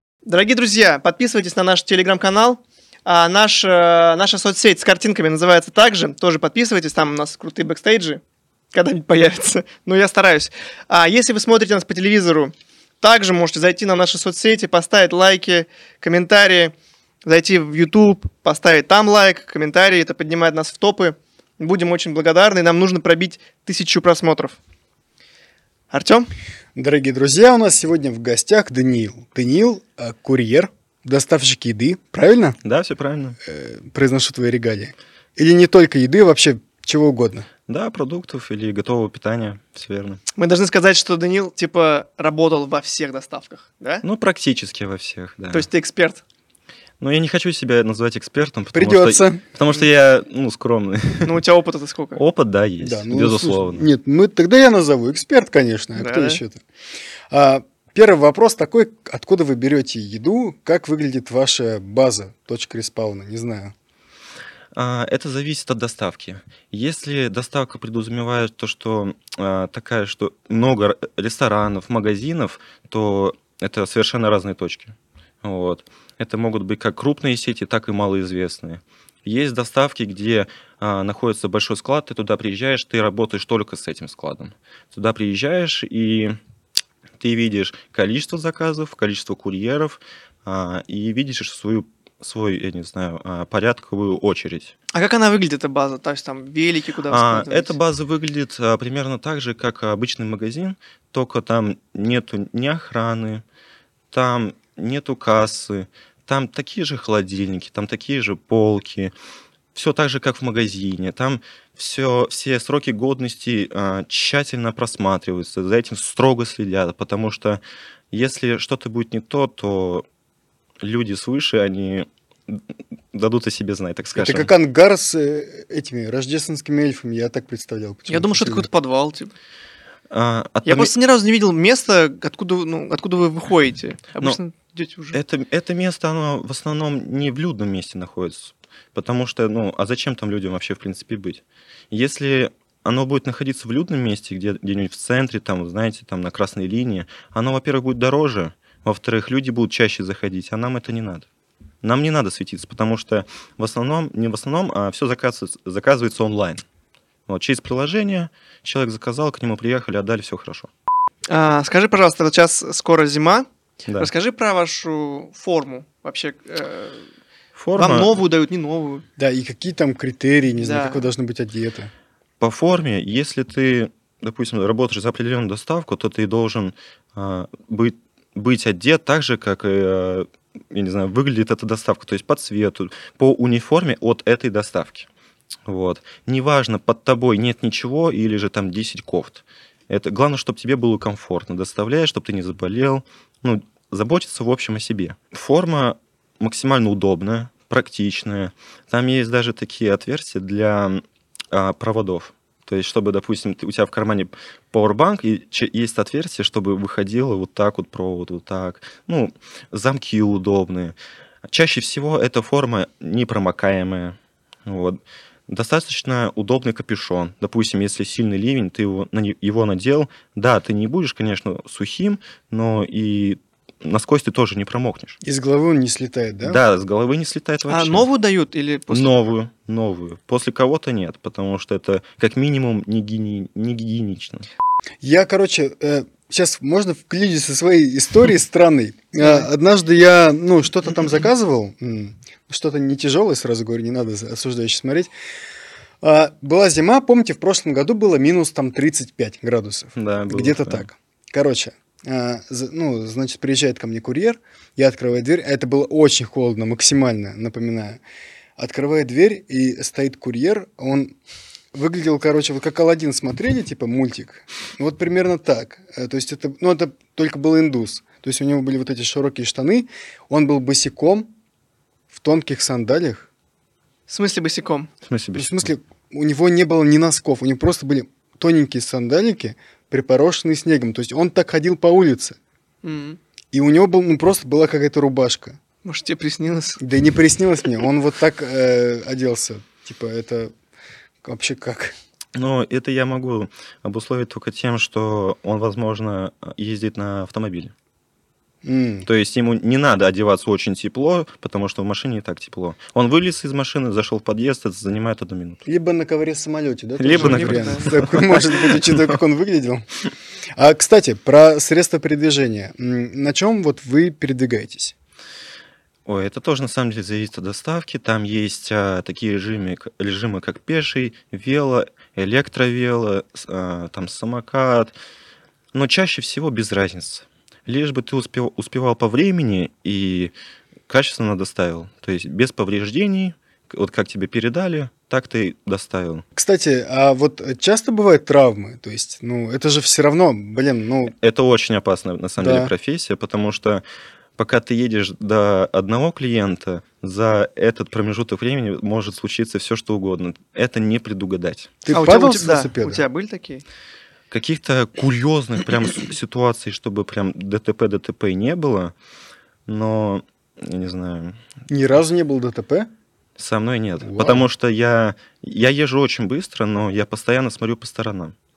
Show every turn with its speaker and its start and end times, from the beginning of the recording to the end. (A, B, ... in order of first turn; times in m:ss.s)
0:00.2-0:08.2 A
0:08.7-0:16.7 A
0:17.2-0:24.6 A
0:25.9-0:26.3 A
0:26.8-0:32.6 B
0:32.6-0:33.4 C
0:33.4-0:37.5 B
0:37.7-0:40.2 C
0:40.4-0:44.0 A
0:44.0-0:45.7 C
0:45.5-0:46.2 A
0:47.0-0:51.4 C
0:48.7-0:49.4 B
0:51.2-0:52.2 A
0:52.2-0:53.9 C
0:52.8-0:56.6 B
0:56.0-0:56.4 A
0:57.3-1:03.7 B
1:04.8-1:26.4 C
1:27.2-1:34.8 C
1:34.9-1:37.8 A
1:37.1-1:43.4 C
1:44.1-1:49.1 C
1:49.8-2:00.0 C
2:00.8-2:02.6 C
2:03.1-2:04.5 C
2:04.2-2:08.7 B
2:08.1-2:09.3 A
2:10.1-2:10.9 C
2:10.7-2:15.2 A
2:15.1-2:31.3 C
2:31.8-2:36.6 C
2:37.3-2:40.7 C
2:41.3-2:43.5 A
2:44.0-2:47.1 A
2:47.6-2:48.2 C
2:47.8-2:49.0 A
2:49.2-2:51.9 B
2:50.6-2:51.1 A
2:52.4-3:05.1 C
3:05.7-3:31.0 C
3:31.5-3:45.2 C
3:45.2-3:46.6 B
3:46.4-3:48.0 C
3:47.7-3:49.2 A
3:48.9-3:54.5 C
3:55.0-4:05.1 B
3:59.2-3:59.5 A
4:06.0-4:18.0 B
4:10.0-4:10.9 C
4:18.6-4:21.1 B
4:21.7-4:31.3 B
4:32.1-4:33.3 B
4:34.1-4:34.9 A
4:35.1-4:35.7 C
4:35.4-4:42.4 B
4:42.8-4:43.2 A
4:43.5-4:45.6 B
4:45.8-4:46.8 A
4:46.8-4:50.5 B
4:51.2-4:52.0 B
4:52.4-4:57.7 C
4:58.6-4:59.1 B
4:59.1-5:05.6 C
5:05.7-5:09.9 B
5:07.0-5:09.2 C
5:07.1-5:08.1 A
5:10.6-5:14.9 B
5:16.1-5:25.0 C
5:25.7-5:30.3 C
5:30.9-5:36.2 C
5:36.4-5:41.1 B
5:41.1-5:43.8 C
5:42.4-5:42.7 B
5:44.4-5:51.8 C
5:51.8-5:53.0 B
5:51.9-5:53.6 A
5:54.3-5:58.9 C
5:59.7-6:01.4 C
6:01.7-6:02.9 B
6:03.4-6:08.4 C
6:04.0-6:04.5 B